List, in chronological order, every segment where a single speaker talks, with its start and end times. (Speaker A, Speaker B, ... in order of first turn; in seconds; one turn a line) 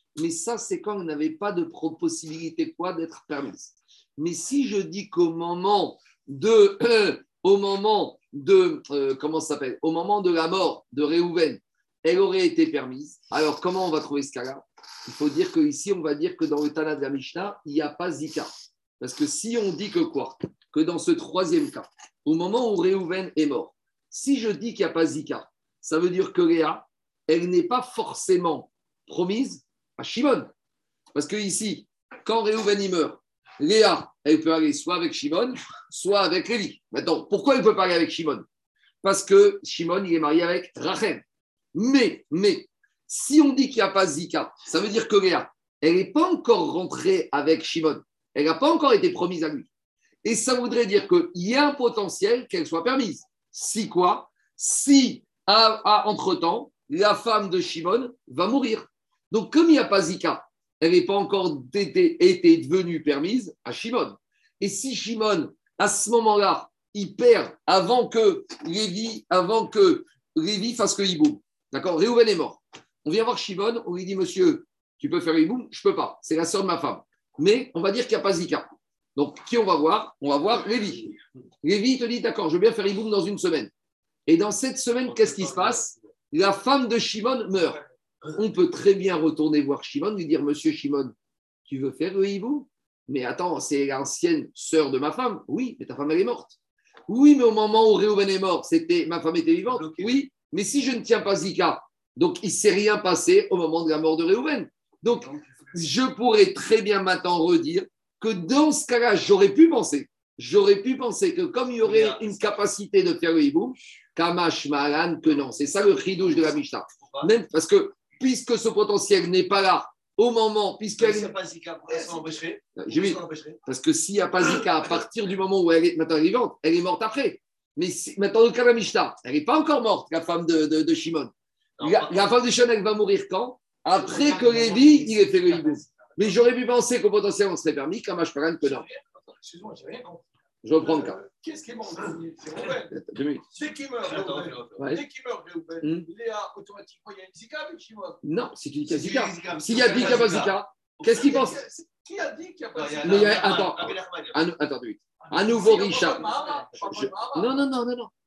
Speaker A: 0.2-30.5
Speaker A: 31.1-38.5
Speaker A: 39.0-41.2
Speaker A: 41.8-49.7
Speaker A: 50.2-83.7
Speaker A: 84.3-87.8
Speaker B: 85.1-85.9
Speaker A: 88.3-91.1
Speaker A: 91.7-96.5
Speaker A: 97.1-121.3
Speaker B: 99.7-100.2
Speaker B: 105.3-105.6
Speaker B: 111.8-112.3
Speaker B: 121.0-123.6
Speaker C: 121.9-122.3
Speaker A: 122.8-138.9
Speaker B: 131.8-132.3
Speaker C: 134.0-135.9
Speaker C: 138.6-140.2
Speaker A: 140.6-141.2
Speaker C: 140.8-143.0
Speaker A: 142.9-143.4
Speaker C: 143.5-148.2
Speaker B: 144.0-144.8
Speaker A: 144.8-145.0
Speaker A: 145.8-146.1
Speaker A: 148.2-151.6
Speaker B: 148.9-150.6
Speaker C: 151.1-153.2
Speaker B: 152.8-154.4
Speaker A: 153.0-158.1
Speaker C: 155.2-157.6